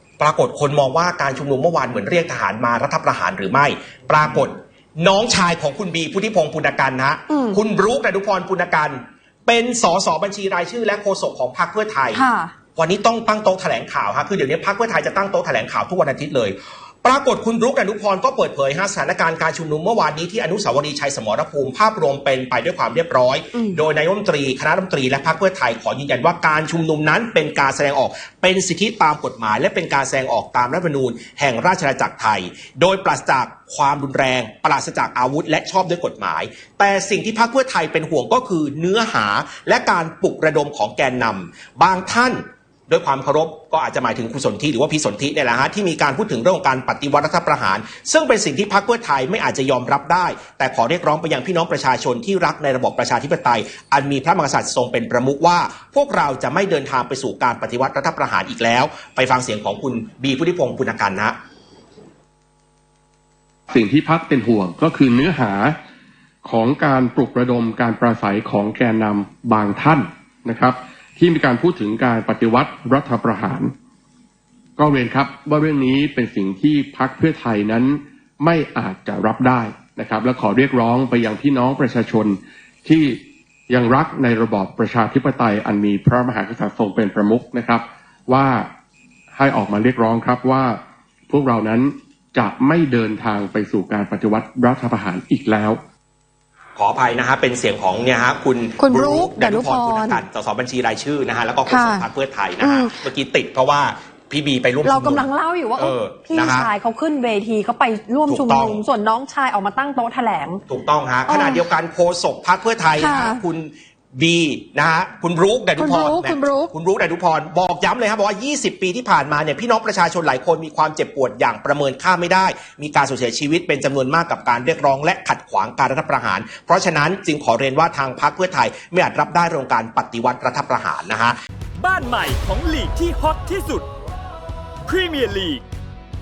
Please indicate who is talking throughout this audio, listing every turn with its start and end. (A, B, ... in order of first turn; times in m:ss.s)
0:00.2-0:12.2 A
0:07.3-0:07.6 B
0:12.1-0:12.5 B
0:12.8-1:01.4 A
1:03.7-1:05.8 C
1:06.4-1:13.7 C
1:14.8-1:28.7 C
1:29.3-1:30.8 C
1:31.3-1:35.8 C
1:36.8-1:46.7 A
1:38.8-1:40.2 B
1:41.7-1:42.0 B
1:42.6-1:43.0 B
1:44.8-1:50.6 B
1:48.3-1:48.8 A
1:50.7-2:11.4 A
1:51.3-1:51.6 B
1:53.0-1:53.4 B
1:55.8-1:56.7 B
2:11.8-2:13.9 D
2:14.9-2:15.6 D